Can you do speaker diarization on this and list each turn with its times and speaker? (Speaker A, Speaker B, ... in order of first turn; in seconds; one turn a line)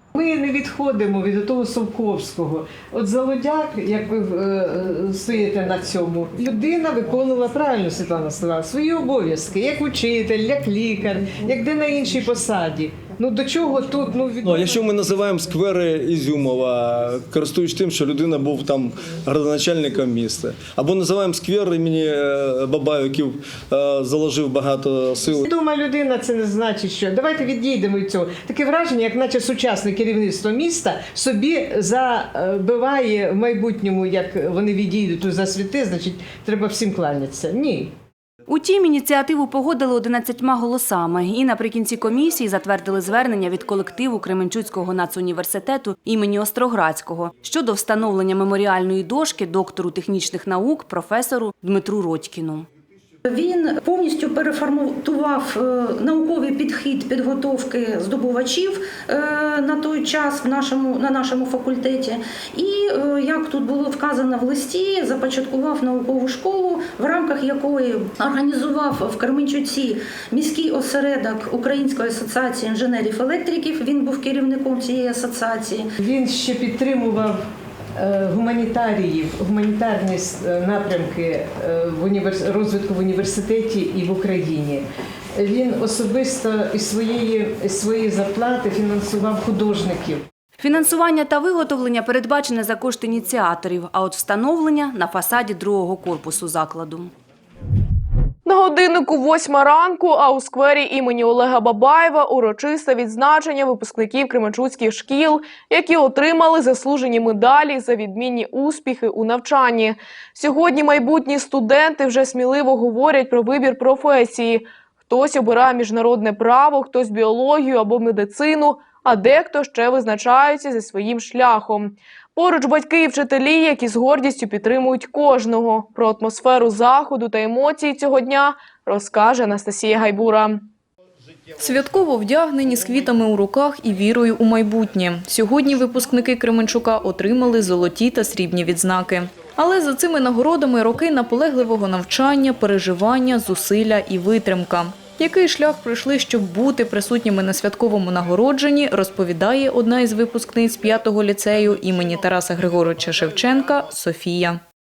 Speaker A: 0.1-14.7
Speaker B: 14.4-25.4
Speaker A: 25.4-37.9
Speaker C: 38.5-52.7
Speaker D: 53.3-75.9
Speaker A: 76.0-90.2
Speaker C: 90.6-97.1
Speaker E: 98.5-130.7
Speaker F: 131.6-154.6